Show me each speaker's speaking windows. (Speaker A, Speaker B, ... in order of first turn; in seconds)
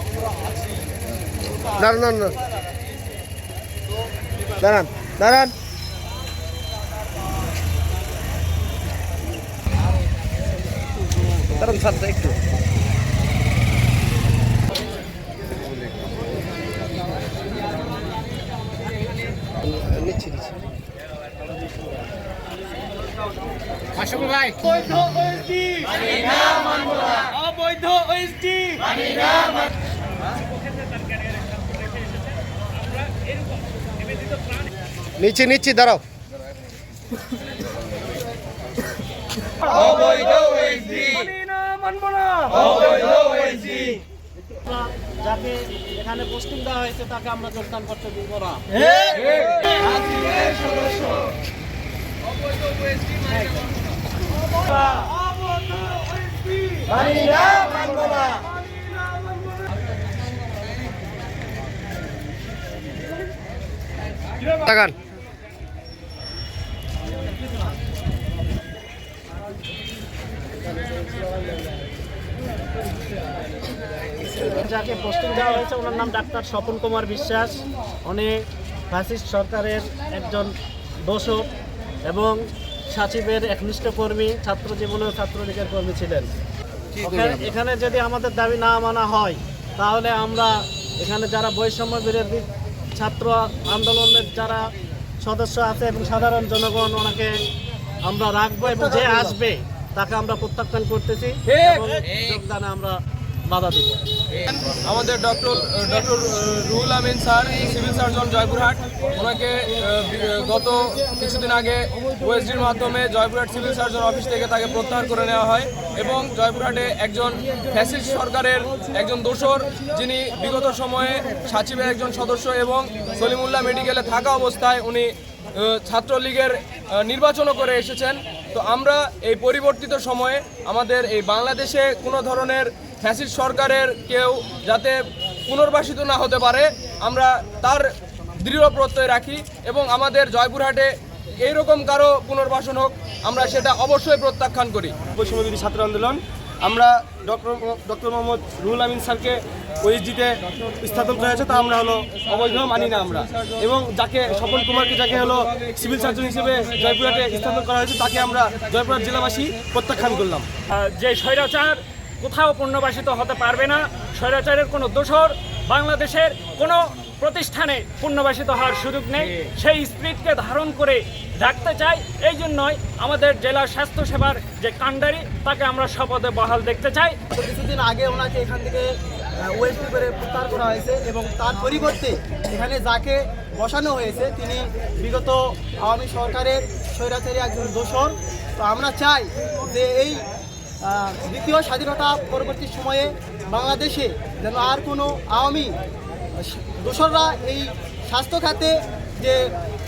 Speaker A: 1.6-2.4, 4.6-5.5, 11.5-12.4, 19.6-20.5, 35.2-36.0, 64.5-65.0, 98.7-99.3
Speaker B: 27.2-29.6, 30.4-34.6, 41.5-42.3, 160.7-177.2
Speaker C: 39.7-44.0, 49.1-49.9, 101.5-102.1, 104.4-137.9, 138.4-140.9, 141.4-145.0, 152.3-153.6, 155.1-157.5
Speaker D: 44.6-48.8, 50.1-51.0, 74.3-80.5, 81.1-81.5, 82.1-86.3, 87.0-94.6, 95.2-97.3, 98.1-104.0
Speaker E: 145.2-160.5
Speaker F: 177.3-190.2, 190.8-195.7, 196.4-199.5